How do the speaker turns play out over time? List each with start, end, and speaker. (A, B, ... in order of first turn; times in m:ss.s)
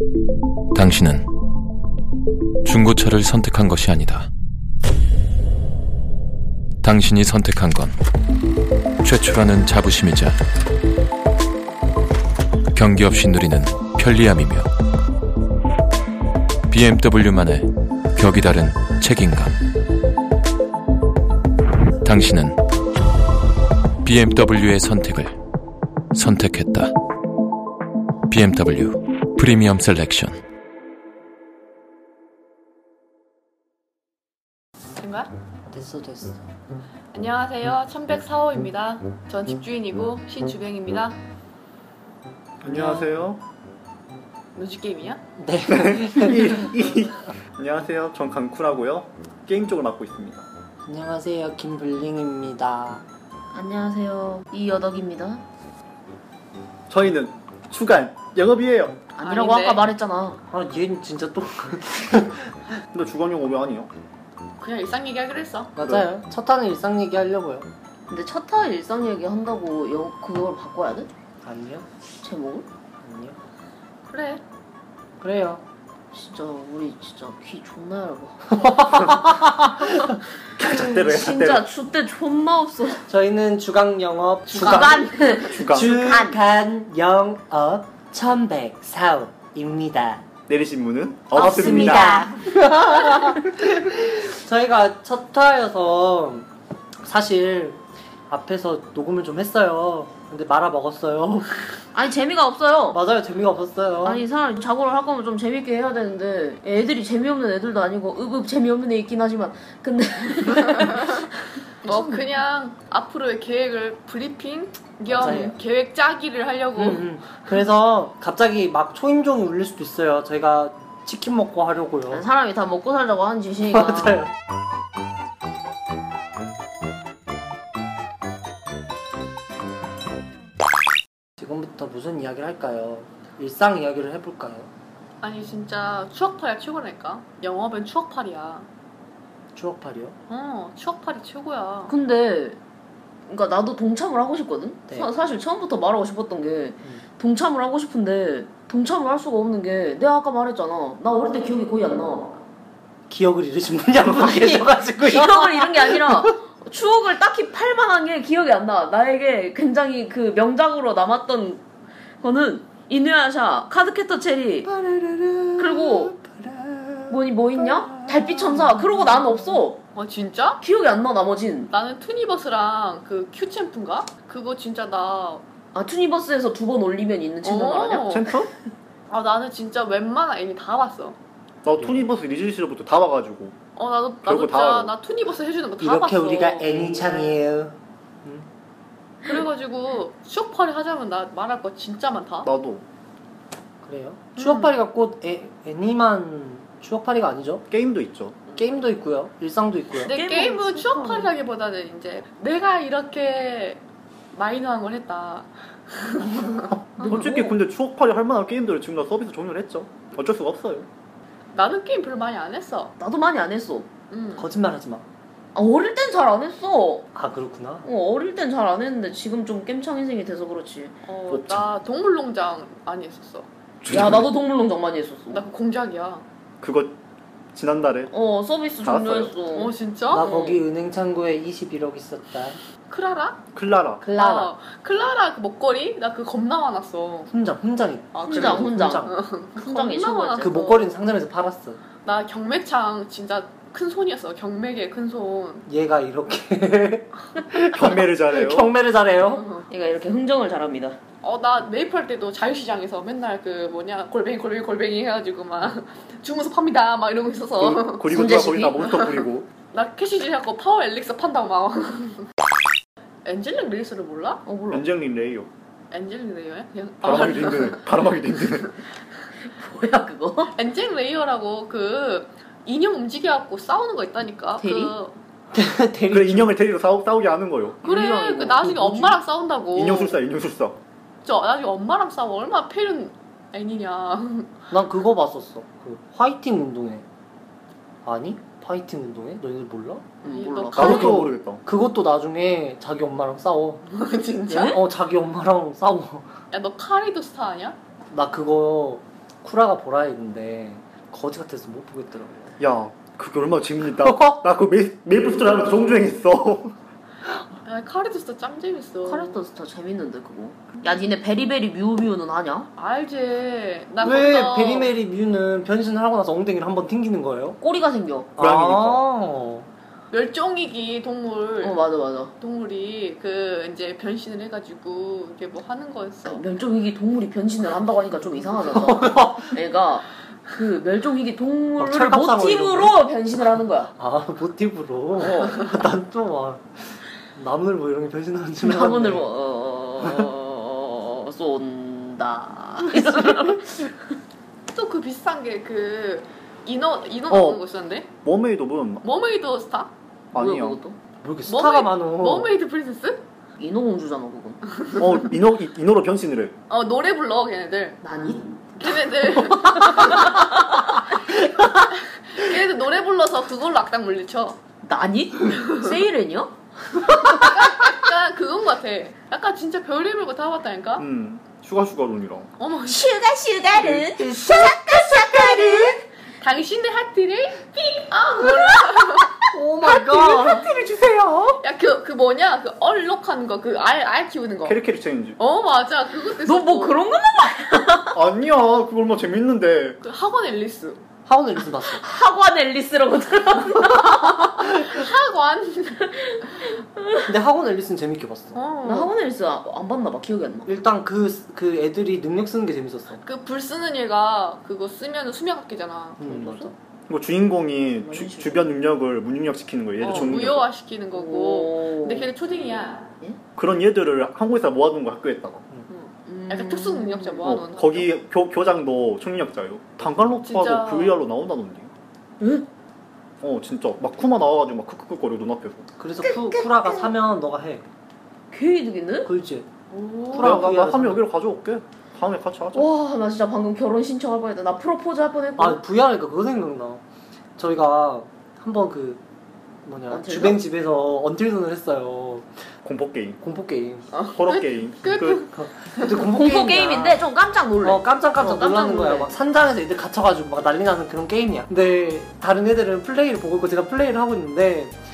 0:00.7-0:01.3 A
0:02.6-0:04.3 A
0:06.8-0:08.0 A
0:09.0-0:10.4 A
0:12.7-0:14.7 A
0:16.7-0:19.6 A
0:22.0-0:22.6 A
0:24.0-0:25.4 A
0:26.1-0:26.9 A
0:28.3-0:30.4 A
0:35.0-0:35.3 B
0:35.7-0:36.4 C
0:37.1-0:41.2 B
0:42.6-0:43.4 D
0:42.6-0:43.2 C
0:44.6-0:45.2 B
0:45.4-0:46.8 C
0:45.7-0:50.5 D
0:50.8-0:53.0 C
0:53.5-0:55.4 E
0:56.9-0:59.0 D
0:59.2-1:00.4 E
0:59.2-0:59.9 B
1:00.5-1:02.5 C
1:02.9-1:03.9 D
1:04.6-1:05.7 B
1:05.8-1:07.7 C
1:05.8-1:06.1 D
1:08.1-1:11.1 E
1:11.4-1:11.9 C
1:12.2-1:12.7 E
1:13.0-1:13.4 C
1:14.1-1:14.4 B
1:15.2-1:15.6 C
1:16.1-1:19.1 E
1:18.6-1:20.2 C
1:20.6-1:21.7 D
1:20.6-1:23.0 E
1:23.1-1:25.0 C
1:24.5-1:26.4 E
1:24.5-1:25.9 D
1:25.6-1:30.2 C
1:30.5-1:32.1 D
1:31.3-1:32.4 E
1:31.4-1:36.5 C
1:37.0-1:41.6 C
1:41.9-1:43.0 E
1:42.9-1:44.2 C
1:44.0-1:51.2 E
1:50.8-1:51.1 B
1:51.8-1:52.2 E
1:51.8-1:57.1 B
1:55.1-1:55.6 C
1:55.2-1:55.5 E
1:56.8-2:02.3 C
2:02.1-2:04.2 E
2:03.7-2:04.3 C
2:11.4-2:14.7 C
2:15.2-2:18.7 B
2:19.5-2:20.2 C
2:20.3-2:22.0 B
2:21.9-2:22.6 E
2:23.3-2:32.4 E
2:33.1-2:36.4 C
2:34.0-2:41.6 E
2:42.2-2:44.7 E
2:44.6-2:49.6 C
2:45.6-2:46.1 E
2:47.1-2:49.8 E
2:50.0-2:50.6 B
2:50.6-2:51.7 E
2:51.7-2:55.4 B
2:55.7-2:58.2 E
2:57.4-2:58.3 B
2:58.1-2:58.5 D
2:59.1-3:01.2 B
3:01.6-3:03.6 D
3:01.8-3:02.1 C
3:03.8-3:07.2 B
3:04.2-3:04.9 D
3:05.8-3:08.5 C
3:09.2-3:12.5 B
3:12.4-3:12.8 D
3:13.8-3:17.7 C
3:14.4-3:14.8 B
3:17.7-3:18.4 D
3:18.5-3:20.2 C
3:20.0-3:23.8 B
3:20.0-3:21.3 E
3:24.3-3:26.7 B
3:27.0-3:27.6 E
3:27.0-3:30.9 D
3:31.5-3:32.9 B
3:33.0-3:33.9 E
3:34.1-3:34.5 B
3:34.4-3:35.1 C
3:35.6-3:37.1 E
3:37.2-3:37.9 C
3:37.8-3:41.0 E
3:41.1-3:43.5 B
3:41.3-3:41.6 D
3:43.8-3:44.3 D
3:43.9-3:45.5 E
3:45.3-3:46.2 B
3:46.6-3:47.0 D
3:47.5-3:48.1 D
3:48.1-3:50.6 E
3:48.8-3:49.3 D
3:49.5-3:50.2 B
3:50.1-3:52.6 C
3:52.9-3:53.4 B
3:53.6-3:54.0 D
3:54.0-3:54.5 C
3:54.1-3:57.3 B
3:57.3-3:59.2 C
3:58.1-4:00.9 B
3:58.2-4:00.6 E
4:00.4-4:01.8 C
4:02.0-4:05.6 B
4:05.7-4:09.5 C
4:07.7-4:08.7 D
4:09.2-4:09.7 B
4:09.7-4:11.0 E
4:11.2-4:18.2 B
4:17.6-4:19.5 D
4:18.1-4:19.0 E
4:18.9-4:19.2 B
4:19.7-4:22.3 B
4:23.2-4:24.4 B
4:24.4-4:24.9 E
4:24.7-4:25.5 D
4:25.9-4:27.9 B
4:27.0-4:28.7 D
4:29.4-4:30.6 E
4:30.5-4:35.2 B
4:34.6-4:35.0 E
4:35.5-4:36.6 C
4:36.1-4:37.8 D
4:37.8-4:38.8 E
4:37.8-4:40.2 B
4:39.7-4:40.8 D
4:41.2-4:44.6 B
4:44.7-4:47.1 C
4:48.0-4:50.1 C
4:50.2-4:50.9 B
4:50.2-4:51.2 E
4:50.7-4:51.6 D
4:50.8-4:53.8 C
4:53.9-4:54.7 B
4:54.5-4:56.3 C
4:54.5-4:54.8 E
4:56.5-4:57.8 B
4:58.1-5:02.6 C
5:02.6-5:06.8 D
5:04.0-5:04.4 C
5:07.7-5:09.4 B
5:09.0-5:12.7 E
5:12.8-5:15.0 B
5:14.0-5:17.6 C
5:17.6-5:18.3 E
5:18.4-5:19.7 C
5:18.4-5:19.0 D
5:20.1-5:21.8 B
5:21.6-5:22.3 E
5:22.4-5:26.5 B
5:26.2-5:33.9 E
5:28.7-5:29.6 C
5:31.8-5:33.0 C
5:33.9-5:39.3 C
5:35.2-5:35.7 E
5:38.6-5:44.0 E
5:44.7-5:48.1 B
5:47.3-5:47.6 D
5:48.2-5:49.1 D
5:49.0-5:49.9 B
5:50.3-5:50.8 D
5:50.4-5:51.0 E
5:51.2-5:52.5 C
5:51.5-5:53.2 B
5:53.6-5:54.6 E
5:55.0-5:56.6 D
5:56.7-5:58.0 B
5:58.0-5:58.9 E
5:58.8-6:00.5 B
5:59.5-6:00.5 E
6:01.9-6:04.6 B
6:04.8-6:07.5 E
6:07.2-6:11.1 B
6:11.0-6:12.5 D
6:12.6-6:13.1 B
6:12.8-6:16.0 E
6:13.7-6:16.0 C
6:16.4-6:19.3 B
6:18.4-6:18.8 E
6:19.5-6:21.6 C
6:20.1-6:20.6 E
6:21.6-6:24.8 B
6:24.6-6:25.4 D
6:25.4-6:27.0 B
6:26.4-6:28.2 E
6:28.1-6:30.0 D
6:30.0-6:31.0 B
6:31.3-6:32.0 C
6:32.0-6:34.7 E
6:34.4-6:36.2 B
6:36.4-6:37.2 E
6:37.2-6:38.6 C
6:38.6-6:39.1 B
6:38.8-6:40.7 E
6:40.7-6:43.2 C
6:43.2-6:46.4 B
6:46.2-6:46.7 C
6:46.3-6:46.7 E
6:47.1-6:50.7 D
6:48.0-6:48.8 E
6:50.0-6:53.1 B
6:51.1-6:52.3 E
6:53.6-6:55.6 D
6:55.9-6:57.4 E
6:56.5-6:58.1 B
6:57.4-7:01.9 D
7:00.4-7:01.2 B
7:02.4-7:02.7 E
7:03.4-7:05.9 D
7:06.0-7:07.9 C
7:06.2-7:07.1 E
7:08.5-7:09.3 E
7:09.2-7:09.7 C
7:09.9-7:10.6 E
7:10.3-7:11.3 C
7:10.3-7:12.9 D
7:12.8-7:15.8 E
7:15.6-7:17.0 C
7:17.6-7:19.2 C
7:19.8-7:22.5 C
7:20.1-7:20.6 E
7:22.8-7:23.4 D
7:23.4-7:24.1 C
7:24.1-7:26.1 B
7:24.4-7:25.5 D
7:25.5-7:27.2 C
7:26.2-7:29.3 E
7:27.8-7:35.0 C